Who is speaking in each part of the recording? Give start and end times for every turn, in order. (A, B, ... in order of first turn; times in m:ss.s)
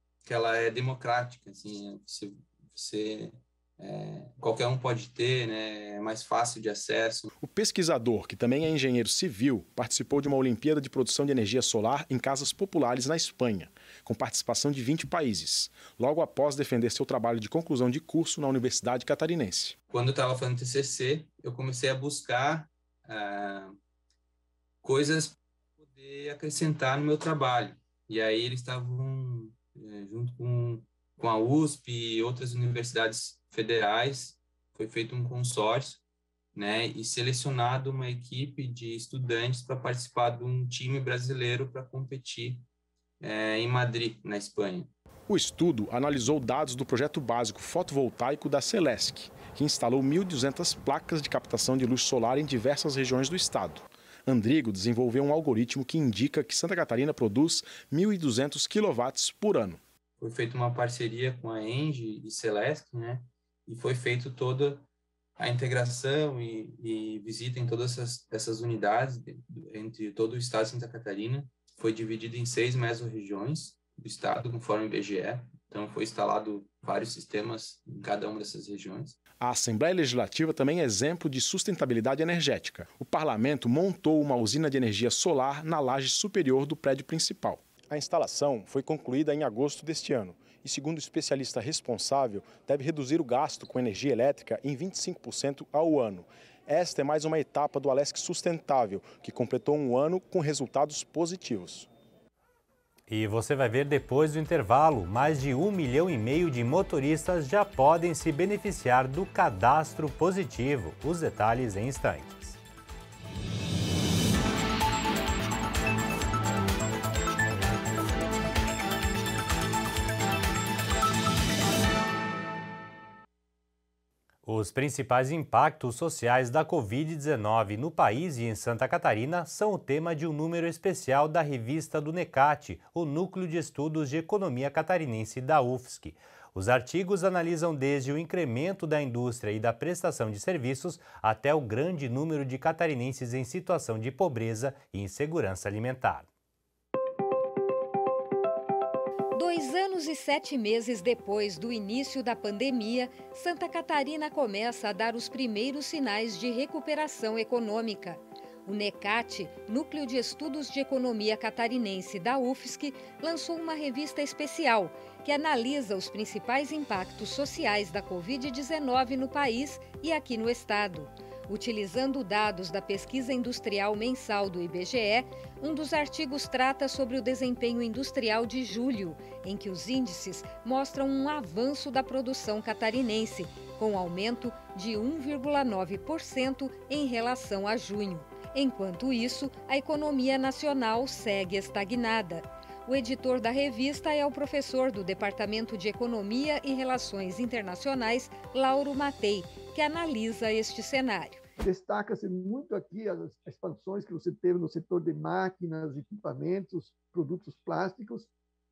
0:00.2-0:07.3 A
0:07.4-0:19.8 B
0:19.9-0:23.8 A
0:24.8-0:36.0 A
0:36.5-0:42.7 A
0:43.2-0:44.9 A
0:45.3-0:59.8 B
1:00.2-1:04.9 A
1:05.4-1:19.2 A
1:19.4-1:41.9 B
1:43.1-1:52.6 C
2:04.4-2:26.3 C
2:29.3-3:21.4 D
3:21.6-3:28.3 E